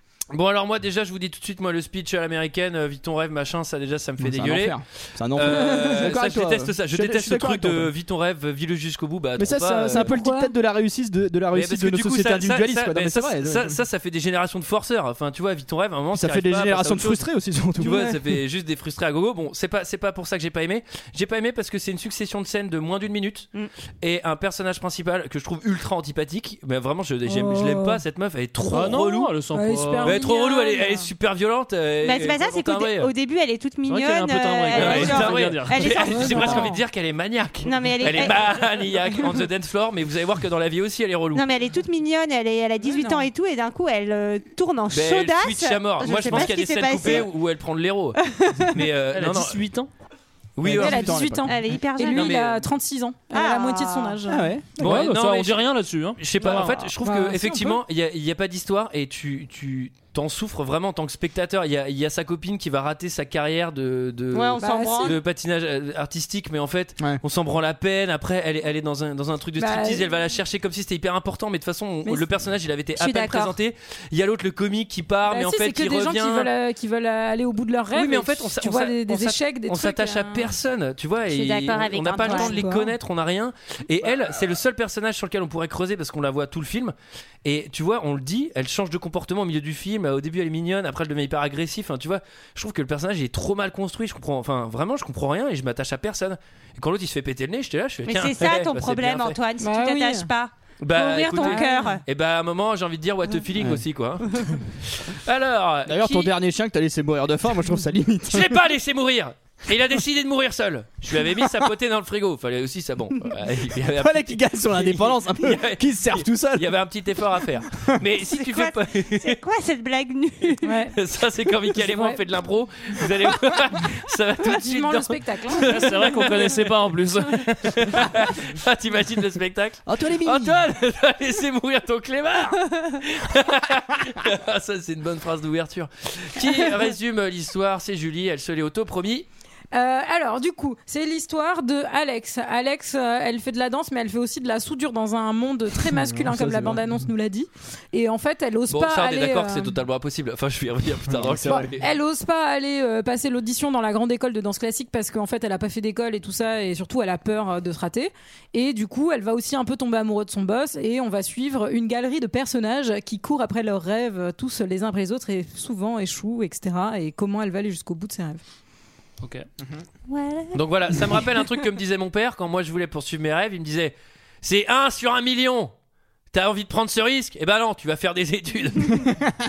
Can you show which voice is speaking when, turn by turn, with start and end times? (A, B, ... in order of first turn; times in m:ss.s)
0:00.3-0:10.2 A
0:04.2-0:07.9 B
0:09.4-0:13.8 B
0:09.9-0:10.5 C
0:11.5-0:23.5 A
0:16.1-0:18.2 B
0:17.8-0:18.1 C
0:24.0-0:29.3 A
0:27.3-0:28.0 C
0:28.7-0:30.2 D
0:29.5-0:30.2 C
0:30.0-0:33.1 A
0:30.1-0:30.8 E
0:32.0-0:36.8 E
0:33.9-0:36.0 D
0:34.7-0:41.4 A
0:36.1-0:36.8 C
0:36.3-0:36.7 B
0:37.6-0:39.2 E
0:41.3-0:47.3 E
0:42.9-0:43.2 C
0:44.9-0:48.2 A
0:48.2-0:48.8 E
0:48.7-0:49.6 A
0:49.1-0:49.9 D
0:50.6-0:51.3 A
0:50.6-0:51.8 B
0:50.7-0:54.5 C
0:51.4-0:52.4 E
0:52.1-0:52.7 A
0:53.3-0:54.2 E
0:54.3-0:55.2 B
0:54.8-0:56.8 D
0:54.8-1:16.5 A
0:56.4-0:56.9 E
0:57.0-0:57.8 C
1:04.3-1:05.2 E
1:04.6-1:05.2 C
1:09.6-1:10.0 C
1:13.0-1:13.6 E
1:15.2-1:20.5 C
1:17.9-1:39.4 A
1:21.3-1:22.6 E
1:22.2-1:22.9 C
1:38.1-1:42.0 E
1:39.6-1:40.3 C
1:40.8-1:44.2 A
1:41.4-1:42.0 C
1:43.6-1:43.8 B
1:44.9-1:46.3 A
1:45.8-1:48.5 B
1:48.3-1:59.4 A
1:53.8-1:56.7 B
1:58.3-2:00.8 E
2:00.6-2:00.9 C
2:01.0-2:06.5 A
2:01.8-2:02.2 C
2:04.4-2:05.8 C
2:05.6-2:08.0 D
2:07.6-2:19.3 A
2:09.9-2:10.6 B
2:19.7-2:29.8 C
2:25.9-2:27.0 B
2:28.7-2:31.9 A
2:31.1-2:31.8 B
2:31.8-2:48.4 C
2:49.2-2:49.5 D
2:50.1-2:51.6 E
2:50.5-2:55.7 A
2:56.3-2:59.1 A